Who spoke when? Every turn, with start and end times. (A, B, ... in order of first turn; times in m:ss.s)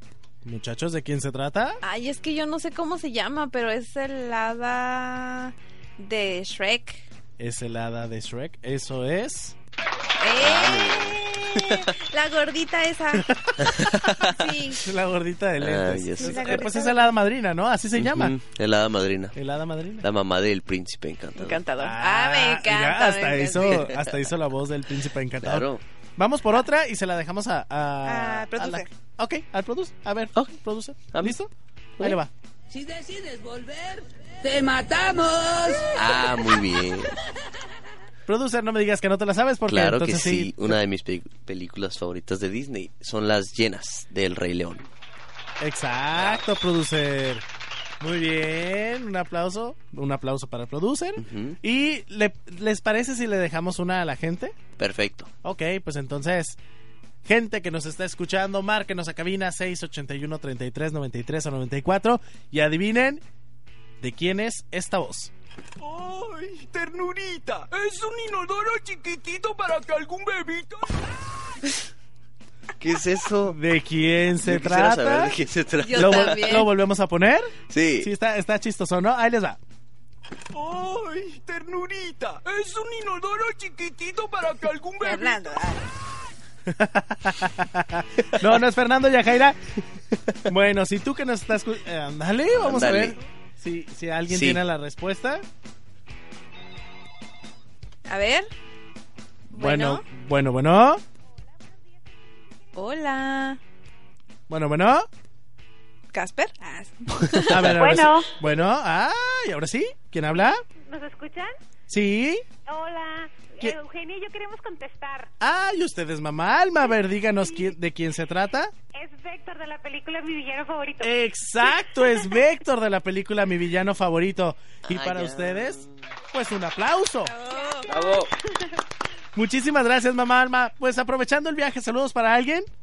0:00.4-0:01.8 A
0:01.8-0:07.0 B
0:07.4-0:09.6 A
0:10.2-0:13.2 B
0:10.4-0:11.9 C
0:13.7-0:14.4 C
0:14.3-0:14.8 B
0:14.8-0:18.4 A
0:15.6-0:16.6 C
0:16.2-0:17.1 B
0:18.0-0:19.4 C
0:19.4-0:20.1 A
0:20.0-0:21.6 C
0:21.4-0:23.7 B
0:21.8-0:32.3 A
0:23.7-0:24.1 C
0:25.4-0:25.8 C
0:28.1-0:28.9 B
0:32.7-0:36.6 D
0:36.0-0:37.2 C
0:38.3-0:40.8 A
0:39.7-0:44.9 C
0:45.6-0:47.4 A
0:48.0-0:54.6 A
0:51.2-0:51.6 C
0:54.8-0:55.3 C
0:55.4-0:56.6 A
0:57.2-1:03.2 A
1:04.0-1:05.3 A
1:05.8-1:11.0 E
1:12.8-1:13.6 C
1:13.5-1:15.4 A
1:14.4-1:16.6 C
1:15.9-1:16.7 B
1:15.9-1:19.6 A
1:17.7-1:18.1 C
1:20.5-1:25.7 E
1:25.0-1:25.8 B
1:26.7-1:29.6 A
1:30.5-1:35.4 A
1:32.5-1:33.2 C
1:34.3-1:34.6 C
1:38.1-1:38.5 B
1:39.5-1:40.0 B
1:39.5-1:41.0 A
1:42.8-1:43.6 B
1:44.5-1:45.1 A
1:46.1-1:48.0 B
1:47.5-1:50.6 A
1:50.4-1:51.5 F
1:51.9-1:52.4 A
1:52.7-1:55.3 F
1:55.4-1:58.7 A
1:57.4-1:57.8 F
1:58.9-2:01.2 F
2:01.0-2:07.3 A
2:02.0-2:02.3 F
2:04.9-2:06.0 C
2:07.3-2:08.2 B
2:07.5-2:07.8 F
2:07.9-2:08.3 C
2:09.4-2:12.7 A